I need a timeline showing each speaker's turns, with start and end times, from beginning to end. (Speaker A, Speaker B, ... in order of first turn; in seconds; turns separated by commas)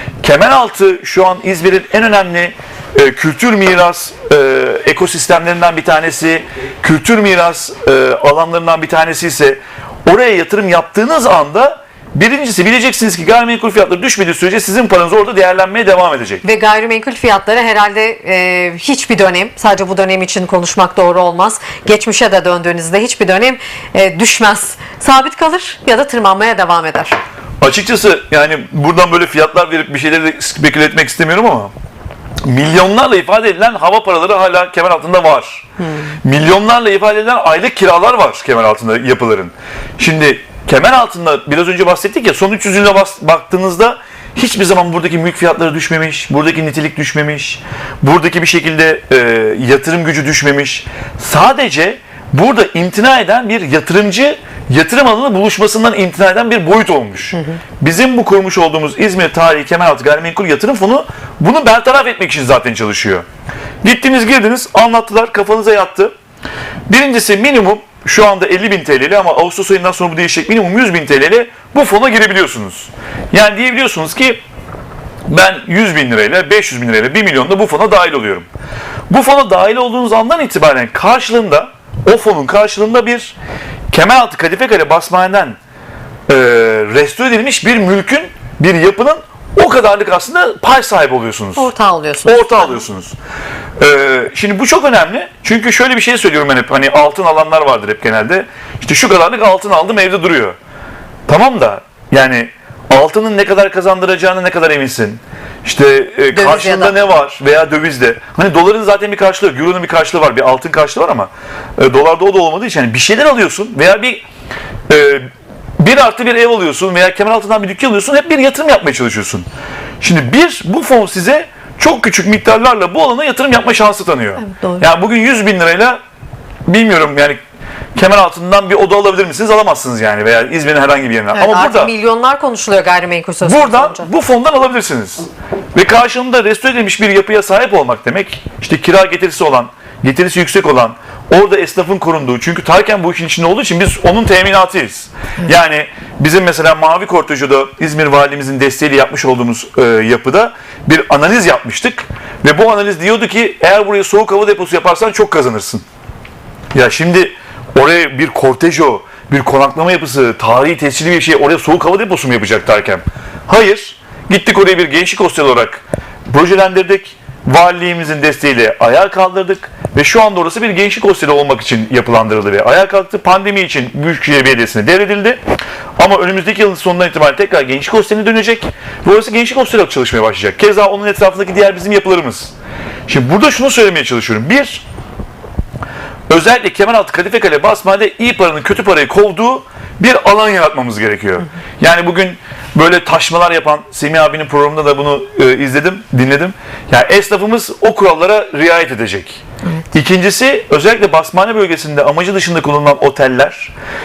Speaker A: 0.2-16.4, Speaker B: 16.4-27.2, Speaker A: 27.6-31.7, Speaker A: 32.5-35.7, Speaker B: 35.8-36.1, Speaker A: 36.2-63.2, Speaker A: 63.8-66.1, Speaker A: 66.9-74.4, Speaker A: 75.3-78.5, Speaker A: 79.1-83.3, Speaker A: 83.9-85.6, Speaker A: 86.3-91.7, Speaker B: 91.6-92.8, Speaker A: 92.2-93.2, Speaker A: 93.8-100.6, Speaker A: 101.3-114.2, Speaker B: 106.3-107.0, Speaker A: 114.9-119.5, Speaker A: 120.0-126.0, Speaker B: 124.4-124.8, Speaker A: 126.7-127.4, Speaker A: 128.0-131.9, Speaker B: 131.3-134.1, Speaker A: 133.4-155.8, Speaker A: 156.7-175.4, Speaker A: 176.0-182.5, Speaker A: 183.1-184.8, Speaker A: 186.3-203.7